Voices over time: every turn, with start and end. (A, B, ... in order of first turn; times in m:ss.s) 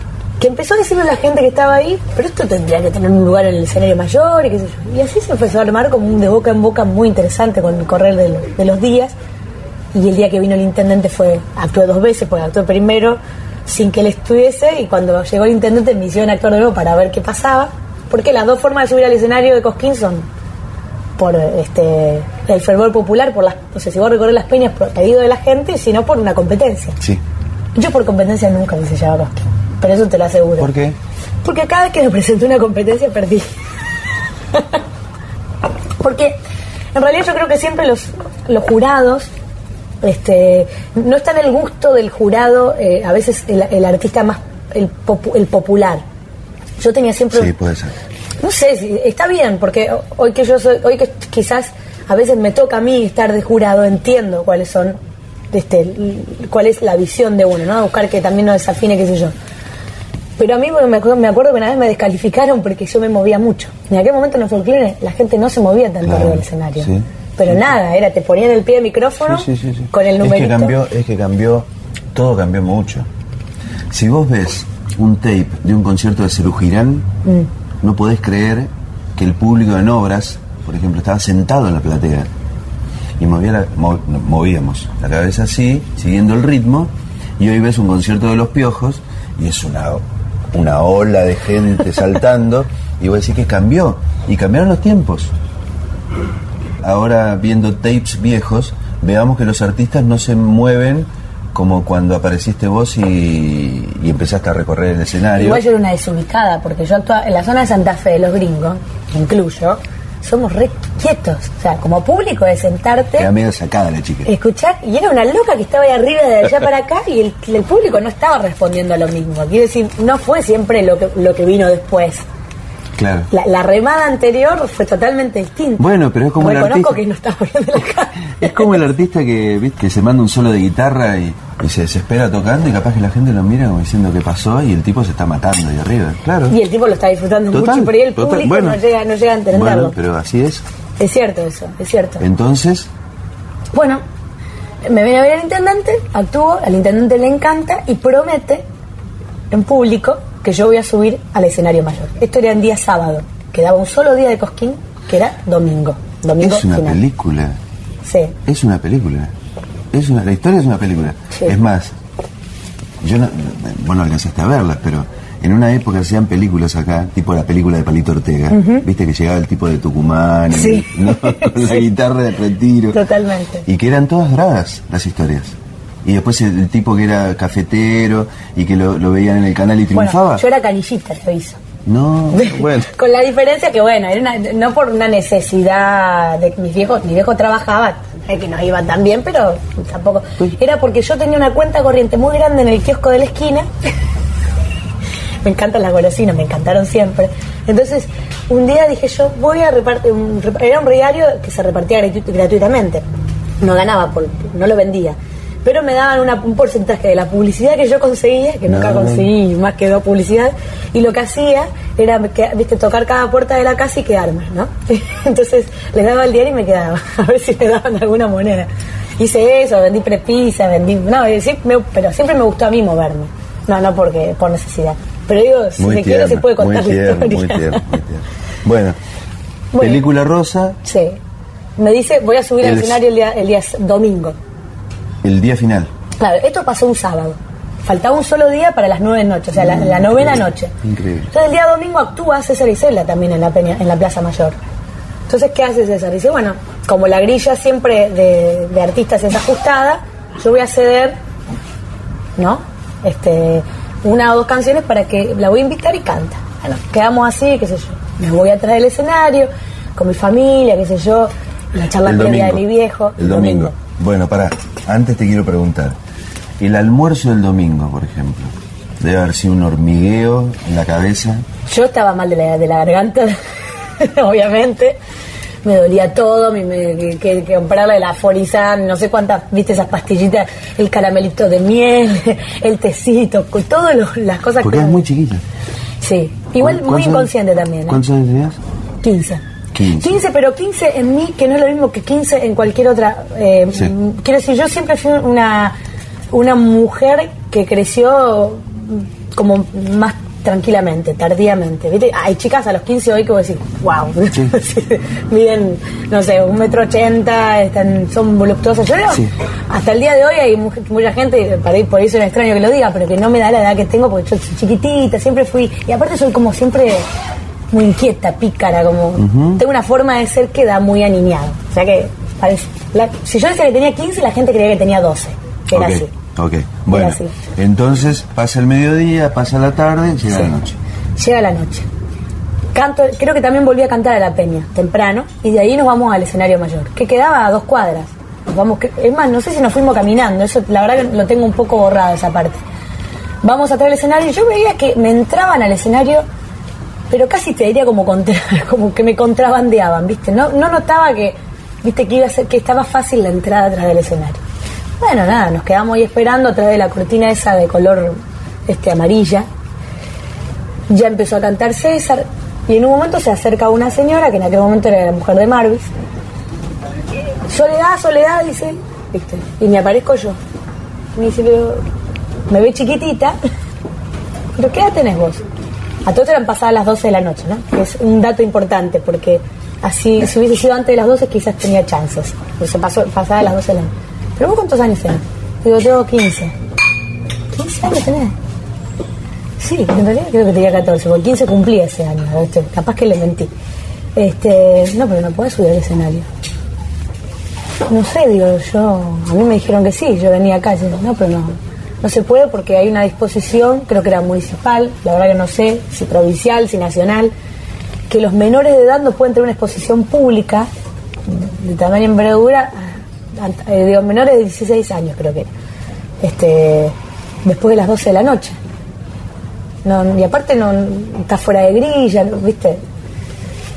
0:00.4-0:09.1 A
0:09.9-0:20.3 A
0:21.2-0:27.0 A
0:27.7-0:30.7 A
0:30.6-0:31.0 B
0:31.4-0:33.4 A
0:34.5-0:34.8 A
0:36.0-0:36.4 A
0:36.9-0:39.3 A
0:40.0-0:46.0 A
0:46.8-0:47.5 A
0:47.3-0:47.9 B
0:48.4-0:55.0 A
0:55.5-0:59.3 A
1:00.4-1:10.8 A
1:06.0-1:07.6 B
1:09.2-1:13.1 B
1:13.9-1:17.1 B
1:17.8-1:22.3 B
1:23.2-1:35.3 B
1:36.8-1:45.6 B
1:45.3-1:53.3 A
1:53.2-1:54.3 B
1:54.2-2:02.2 A
2:03.0-2:03.3 B
2:03.3-2:05.8 A
2:05.8-2:07.0 B
2:06.4-2:08.8 A
2:08.4-2:16.6 B
2:16.5-2:20.0 A
2:17.5-2:18.8 B
2:19.5-2:20.6 B
2:21.0-2:22.2 A
2:22.2-2:22.9 B
2:23.7-2:24.0 A
2:24.8-2:28.6 A
2:29.5-2:37.0 A
2:36.4-2:37.6 B
2:38.0-2:38.3 A
2:38.4-2:39.3 B
2:39.9-2:41.9 B
2:43.0-2:53.0 B
2:48.5-2:48.8 A
2:50.5-2:51.9 A
2:52.9-2:53.6 A
2:53.6-3:00.4 B
2:59.9-3:01.6 A
3:01.8-3:02.9 B
3:02.3-3:13.7 A
3:15.4-3:23.0 A
3:23.6-3:47.8 A
3:28.6-3:29.3 B
3:45.8-3:49.0 B
3:49.7-3:50.0 A
3:49.8-3:50.8 B
3:50.8-3:51.2 A
3:51.8-3:54.4 A
3:52.6-3:53.0 B
3:55.2-3:55.9 B
3:56.2-4:00.7 A
3:59.9-4:00.2 B
4:00.8-4:01.3 B
4:01.3-4:04.6 A
4:05.3-4:11.2 A
4:12.4-4:23.7 A
4:22.0-4:22.6 B
4:23.2-4:26.0 B
4:26.6-4:31.4 B
4:31.7-4:33.4 A
4:34.0-4:35.0 A
4:35.6-4:45.0 A
4:44.6-4:45.4 B
4:46.0-4:48.0 A
4:46.6-4:47.3 B
4:47.8-4:48.6 B
4:49.0-4:49.4 A
4:49.7-4:50.2 B
4:50.0-4:55.8 A
4:56.3-5:17.0 A
5:17.7-5:26.1 A
5:19.2-5:19.6 B
5:25.7-5:30.8 B
5:26.9-5:27.4 A
5:31.2-5:31.9 A
5:32.7-5:42.6 A
5:43.4-5:46.2 A
5:47.1-5:54.4 A
5:55.0-5:59.5 A
6:00.9-6:05.9 A
6:07.5-6:10.4 A
6:11.2-6:11.8 A
6:12.5-6:13.4 A
6:14.5-6:15.4 A
6:16.0-6:26.5 A
6:27.5-6:28.3 A
6:29.6-6:33.5 A
6:34.2-6:36.2 A
6:37.8-6:47.3 A
6:48.1-6:50.7 A
6:51.3-6:55.5 A
6:56.2-6:58.6 A
6:59.8-7:02.8 A